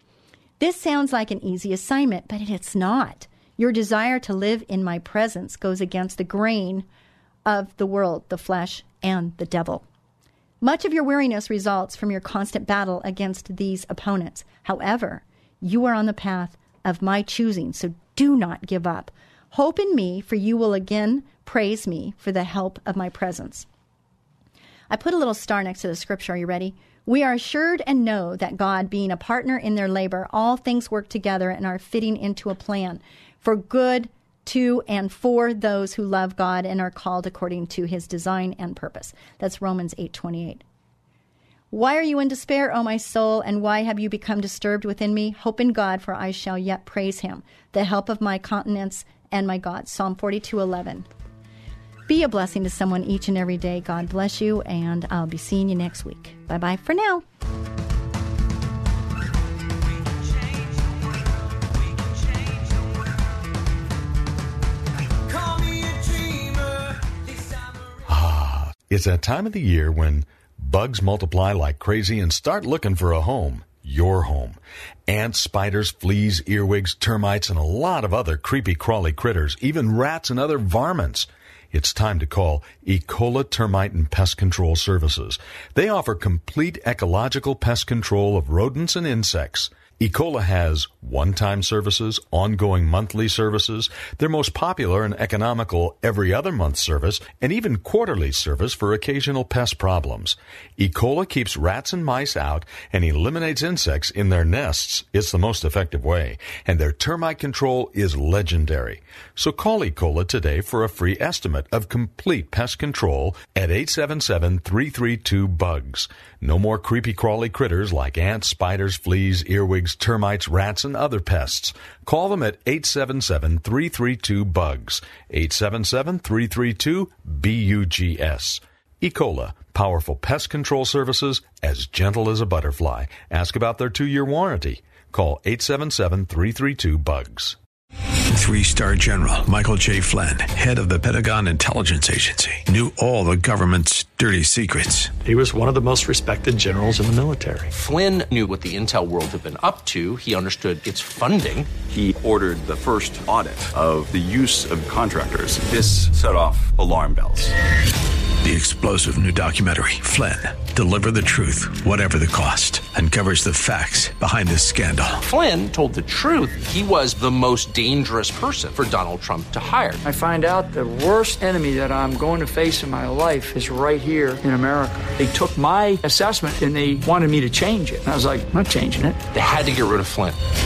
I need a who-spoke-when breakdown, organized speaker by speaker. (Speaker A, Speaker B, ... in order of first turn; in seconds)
Speaker A: 0.6-6.8, 7.4-9.8, 10.6-23.7, 24.9-40.6, 41.7-51.1, 52.1-57.2
Speaker B: 68.0-137.6
Speaker C: 138.3-145.1, 158.4-165.2
Speaker D: 145.2-147.7
Speaker E: 147.7-151.7, 165.2-170.0, 179.3-180.4
Speaker F: 151.8-157.5
Speaker G: 170.0-179.2